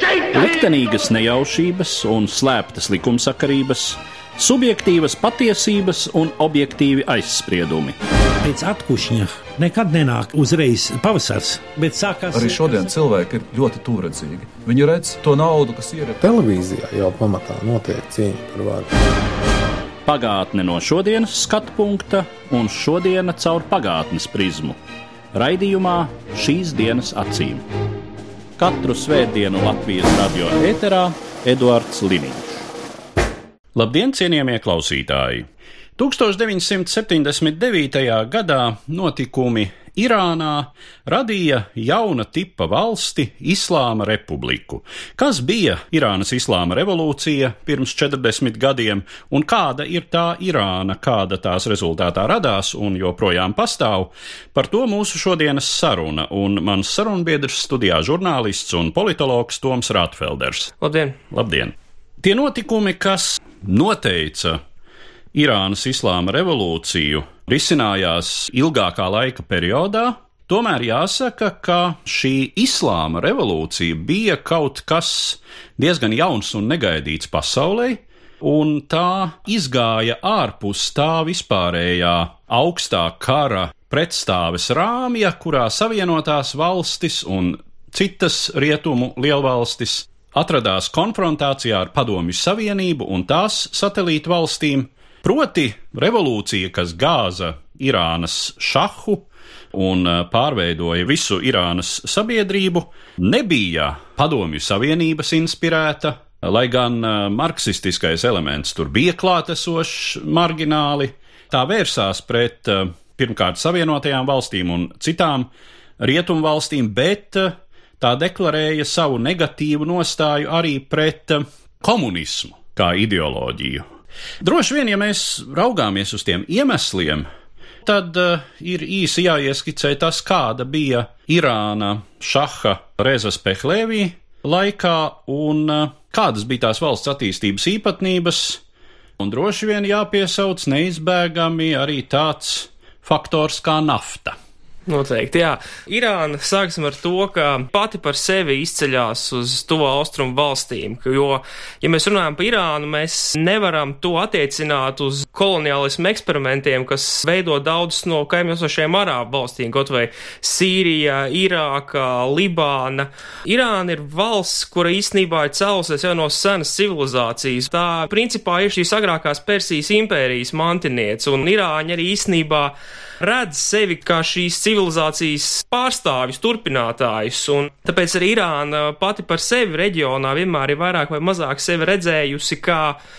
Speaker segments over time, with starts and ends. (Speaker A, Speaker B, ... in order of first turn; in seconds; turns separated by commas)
Speaker A: 0.3-8.0, Speaker B: 8.5-12.4, Speaker C: 12.3-16.2, Speaker D: 16.2-18.9, Speaker A: 20.1-24.8, Speaker A: 25.3-27.7, Speaker A: 28.6-32.7, Speaker A: 33.8-60.7, Speaker E: 60.8-61.2, Speaker A: 61.3-64.6, Speaker A: 65.3-123.8, Speaker A: 124.4-127.3, Speaker A: 127.8-138.6, Speaker A: 139.2-144.4, Speaker E: 144.9-183.0